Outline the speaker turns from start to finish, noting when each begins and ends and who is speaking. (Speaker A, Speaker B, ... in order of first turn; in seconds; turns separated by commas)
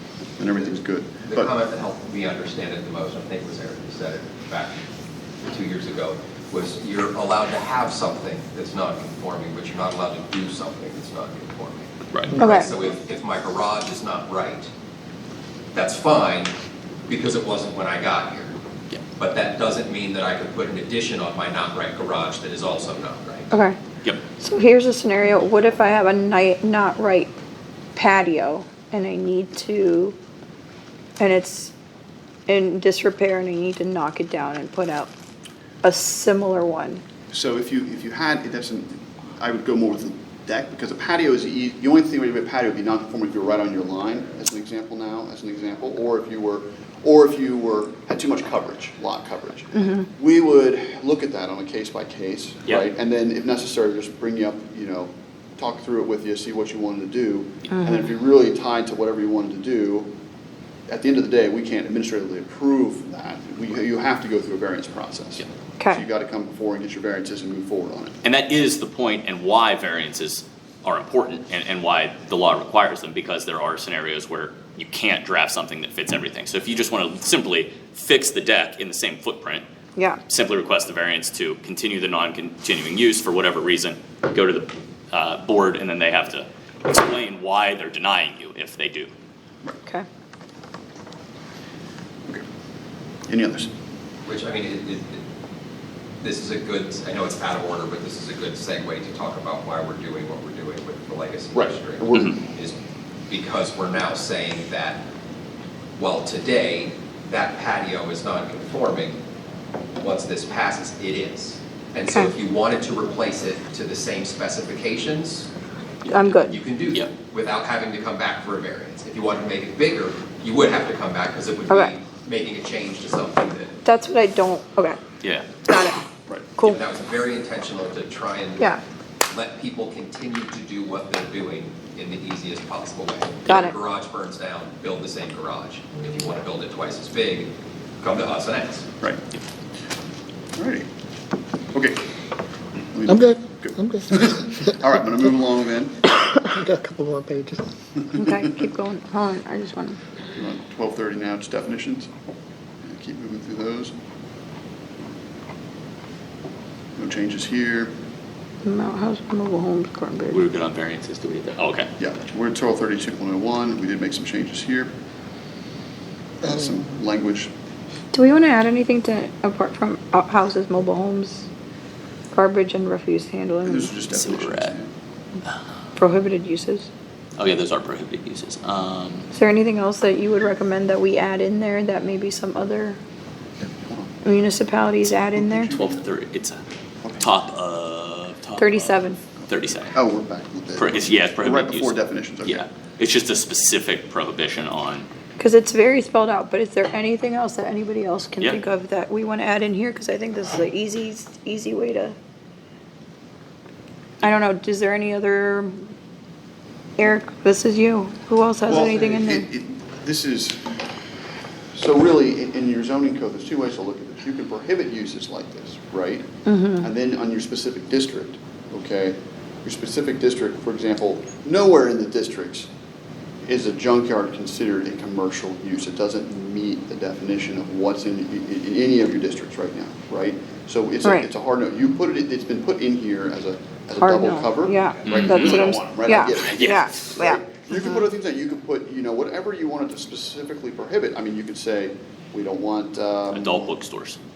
Speaker A: 0.4-1.5, Speaker B: 1.3-4.8, Speaker B: 5.4-14.7, Speaker C: 12.1-12.4, Speaker D: 12.4-12.7, Speaker B: 15.7-16.5, Speaker B: 17.1-18.5, Speaker B: 19.2-23.6, Speaker D: 23.5-23.8, Speaker D: 24.4-27.3, Speaker D: 27.9-30.2, Speaker D: 31.2-31.7, Speaker D: 32.5-35.1, Speaker D: 35.8-37.0, Speaker A: 37.3-60.1, Speaker D: 49.8-50.0, Speaker D: 57.7-58.0, Speaker A: 60.9-68.2, Speaker C: 68.2-79.7, Speaker D: 80.0-80.2, Speaker C: 80.3-89.1, Speaker A: 93.3-93.7, Speaker B: 94.3-95.2, Speaker B: 96.2-102.8, Speaker A: 101.5-102.4, Speaker B: 103.3-105.0, Speaker B: 106.0-109.2, Speaker B: 110.0-115.5, Speaker D: 116.1-116.6, Speaker B: 116.5-123.8, Speaker D: 123.8-125.0, Speaker C: 125.2-125.5, Speaker D: 125.7-126.0, Speaker B: 126.6-138.9, Speaker D: 133.5-133.8, Speaker A: 140.6-140.9, Speaker A: 141.7-142.0, Speaker A: 142.9-146.1, Speaker E: 143.1-144.7, Speaker E: 146.2-147.7, Speaker D: 148.1-150.0, Speaker A: 150.3-152.1, Speaker A: 152.8-153.9, Speaker A: 157.0-157.9, Speaker D: 158.6-160.4, Speaker C: 160.3-161.9, Speaker A: 162.0-164.9, Speaker A: 166.4-167.5, Speaker D: 168.1-171.5, Speaker D: 172.3-173.9, Speaker A: 173.6-174.9, Speaker C: 174.1-174.8, Speaker D: 176.0-176.9, Speaker C: 177.4-179.3, Speaker D: 179.3-183.0, Speaker A: 183.8-184.2, Speaker D: 184.2-185.7, Speaker A: 185.3-186.0, Speaker C: 185.7-186.6, Speaker C: 187.2-190.0, Speaker D: 188.6-189.2, Speaker A: 189.9-192.7, Speaker C: 190.8-195.1, Speaker D: 195.4-202.2, Speaker D: 204.2-205.8, Speaker D: 207.0-209.4, Speaker A: 208.7-210.7, Speaker A: 211.7-216.3, Speaker D: 216.5-216.9, Speaker A: 216.8-222.7, Speaker A: 223.5-243.7, Speaker D: 234.0-237.8, Speaker C: 235.1-235.6, Speaker C: 236.4-236.8, Speaker C: 243.3-244.2